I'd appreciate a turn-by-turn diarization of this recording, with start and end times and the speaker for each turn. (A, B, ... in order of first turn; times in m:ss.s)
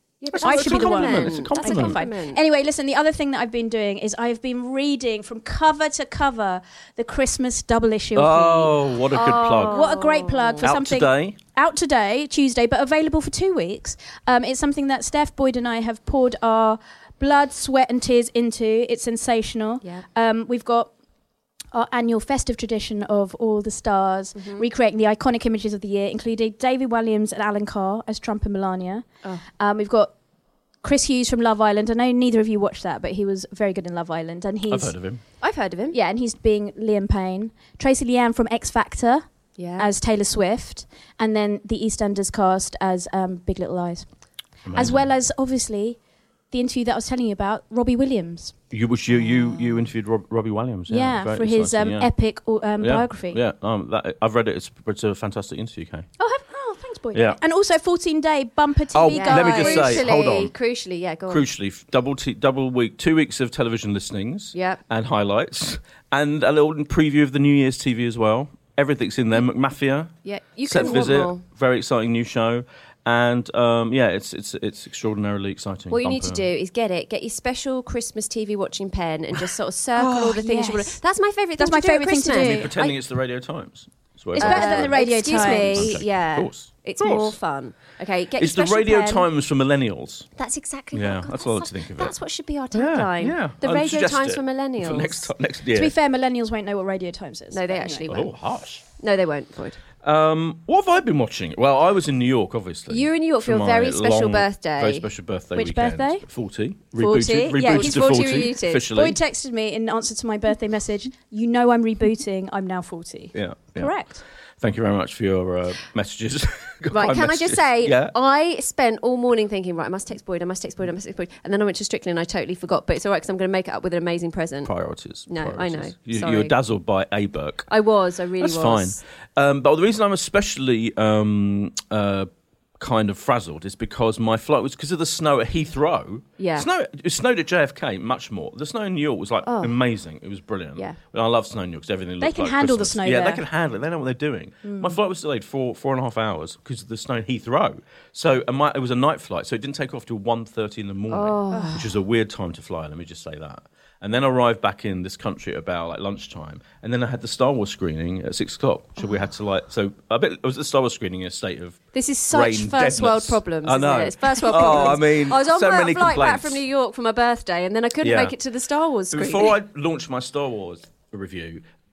0:00.2-0:02.4 A
0:00.3-0:02.0 B
0:00.4-0:08.8 C
0:08.1-0:09.9 B
0:09.1-0:10.7 A
0:09.4-0:20.9 C
0:10.6-0:11.4 B
0:21.7-0:29.0 C
0:24.4-0:24.6 A
0:29.6-0:30.1 C
0:30.8-0:34.9 C
0:34.7-0:35.2 B
0:35.4-0:36.0 A
0:35.9-0:39.2 C
0:39.6-0:39.9 A
0:39.8-0:44.1 C
0:44.6-0:45.1 B
0:44.7-0:46.0 C
0:46.5-0:48.5 C
0:48.7-0:52.1 B
0:49.3-0:49.8 A
0:50.9-0:53.4 C
0:52.8-0:56.1 B
0:56.2-1:00.0 C
0:57.1-0:57.4 B
0:58.9-1:00.5 B
0:59.1-1:01.4 A
1:01.3-1:10.1 B
1:04.5-1:04.8 A
1:10.2-1:11.4 A
1:10.6-1:16.4 B
1:15.9-1:23.0 A
1:20.0-1:21.0 C
1:21.6-1:22.7 C
1:22.3-1:27.4 B
1:24.3-1:26.0 C
1:24.4-1:29.2 A
1:28.4-1:30.3 B
1:30.4-1:35.3 A
1:30.9-1:32.1 B
1:32.7-1:35.9 B
1:35.7-1:38.1 C
1:37.5-1:38.3 A
1:38.1-1:38.8 B
1:39.0-1:39.8 A
1:40.0-1:49.2 B
1:42.9-1:45.0 A
1:45.5-1:46.2 C
1:47.0-1:48.9 A
1:47.5-1:54.2 C
1:53.3-1:53.9 B
1:54.6-1:58.1 B
1:56.9-2:04.7 A
2:04.6-2:07.7 B
2:05.3-2:06.5 A
2:07.7-2:09.0 A
2:08.4-2:46.6 B
2:16.4-2:16.7 A
2:19.4-2:19.7 A
2:22.2-2:23.4 C
2:24.6-2:24.9 C
2:31.1-2:31.9 A
2:31.5-2:31.8 C
2:41.9-2:49.6 A
2:48.0-2:48.3 B
2:49.1-2:51.6 B